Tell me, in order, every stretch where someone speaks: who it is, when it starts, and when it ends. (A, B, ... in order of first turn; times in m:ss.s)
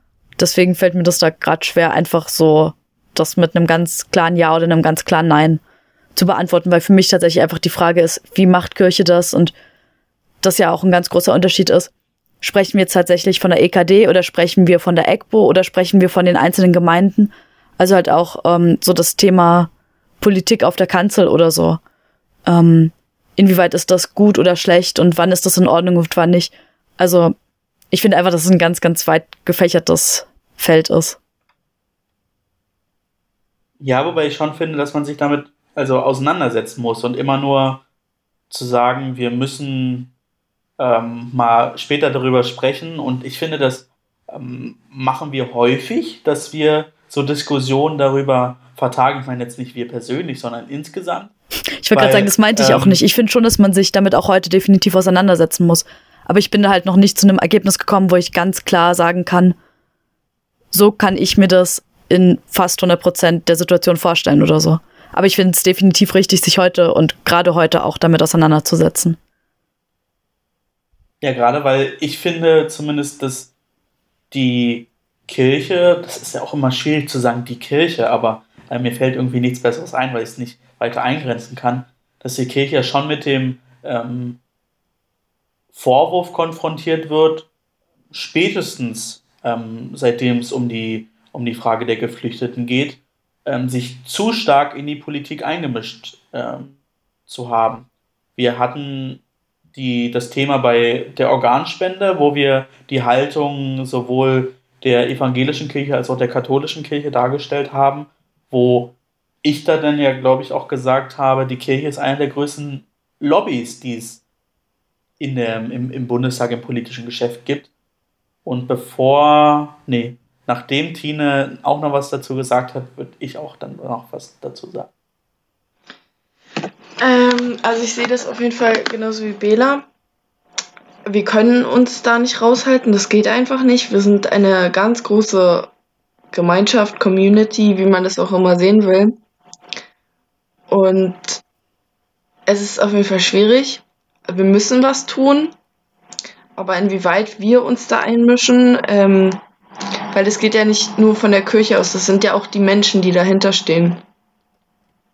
0:00.4-0:05.6 A
0:06.2-0:09.5 A
0:10.4-0:21.8 A
0:22.5-0:27.3 A
0:27.9-0:31.2 A
0:33.8-0:37.8 B
0:38.5-0:40.1 B
0:40.8-0:51.3 B
0:51.8-0:59.6 A
0:52.0-0:53.0 B
1:00.7-1:09.2 A
1:11.2-1:13.5 B
1:14.3-1:24.4 B
1:25.7-1:27.5 B
1:28.1-1:36.8 B
1:37.3-1:39.2 B
1:39.7-1:54.2 B
1:55.2-1:57.7 B
1:58.4-2:04.9 B
2:07.0-2:09.9 C
2:11.1-2:15.7 C
2:16.3-2:19.2 C
2:20.7-2:21.4 C
2:22.5-2:25.5 C
2:26.6-2:29.4 C
2:30.1-2:34.0 C